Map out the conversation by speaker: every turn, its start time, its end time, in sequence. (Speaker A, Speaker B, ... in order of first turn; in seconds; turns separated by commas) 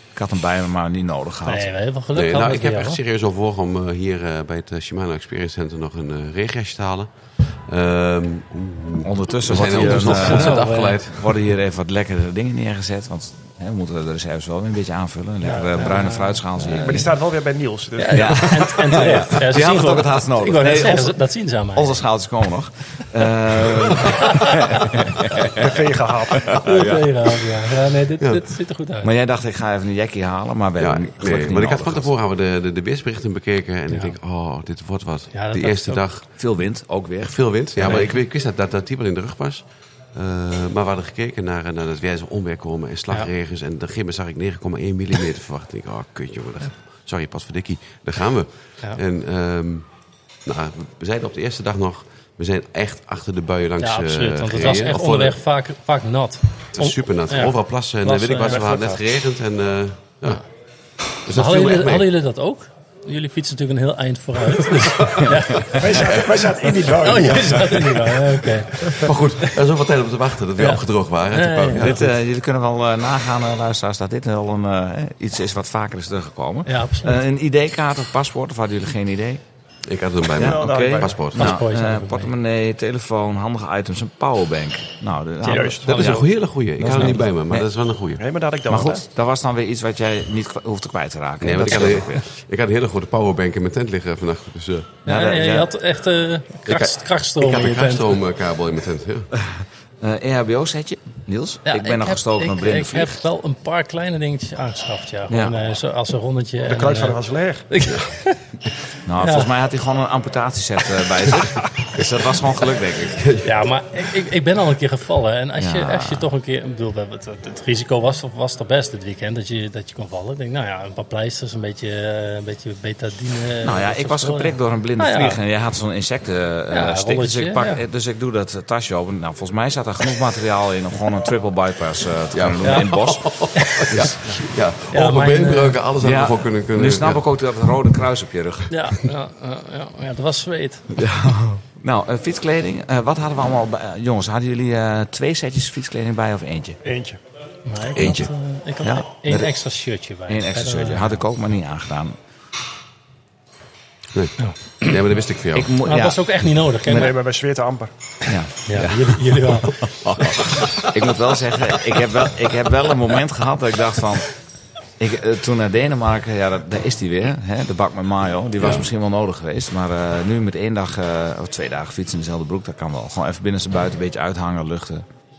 Speaker A: 0.1-1.7, Speaker B: 1.4-3.0, Speaker C: 2.1-11.3, Speaker A: 9.0-17.1, Speaker B: 9.7-11.0, Speaker B: 15.4-17.0, Speaker D: 16.7-19.0, Speaker B: 18.0-22.0, Speaker A: 18.1-21.2, Speaker A: 21.8-25.8, Speaker B: 24.0-24.9, Speaker D: 25.6-26.8, Speaker A: 26.4-27.1, Speaker B: 26.6-29.1, Speaker C: 28.2-28.5, Speaker A: 29.0-32.1, Speaker C: 30.8-36.3, Speaker B: 33.9-34.2, Speaker B: 35.3-36.0, Speaker A: 36.4-38.2, Speaker C: 37.2-49.9, Speaker C: 50.4-55.4, Speaker B: 53.8-59.0, Speaker C: 56.7-60.5, Speaker C: 61.2-62.1, Speaker B: 61.3-66.1, Speaker C: 64.8-65.4, Speaker D: 65.7-68.2, Speaker B: 67.0-69.6, Speaker C: 68.8-72.1, Speaker B: 70.6-72.0, Speaker A: 71.7-79.4, Speaker B: 76.7-77.2, Speaker C: 79.9-81.5, Speaker D: 80.4-81.2, Speaker A: 80.4-87.7, Speaker B: 81.3-82.3, Speaker B: 85.4-86.3, Speaker D: 85.5-86.1, Speaker C: 85.8-88.2, Speaker D: 88.2-89.0, Speaker A: 88.7-92.2, Speaker C: 91.4-94.9, Speaker B: 95.0-98.2, Speaker A: 95.1-95.7, Speaker C: 96.7-99.3, Speaker A: 99.3-103.2, Speaker B: 101.7-108.4, Speaker A: 105.3-105.5, Speaker D: 106.6-107.7, Speaker A: 109.1-113.3, Speaker B: 109.2-109.5, Speaker C: 113.2-113.5, Speaker B: 113.4-125.4, Speaker A: 115.6-116.3, Speaker A: 123.6-133.2, Speaker B: 126.7-127.8, Speaker C: 132.3-137.3, Speaker B: 132.6-133.0, Speaker B: 133.6-135.8, Speaker A: 136.0-139.0, Speaker B: 138.7-141.0, Speaker A: 140.9-146.8, Speaker D: 146.8-147.2, Speaker B: 147.7-151.2, Speaker C: 147.9-148.3, Speaker A: 148.0-148.3, Speaker A: 148.8-149.6, Speaker A: 150.3-152.2, Speaker C: 154.1-155.8, Speaker B: 154.4-155.0, Speaker A: 155.6-157.1, Speaker B: 155.8-157.2, Speaker D: 156.9-157.9, Speaker A: 158.2-164.3, Speaker B: 158.7-159.8, Speaker C: 159.8-161.2, Speaker A: 165.0-175.1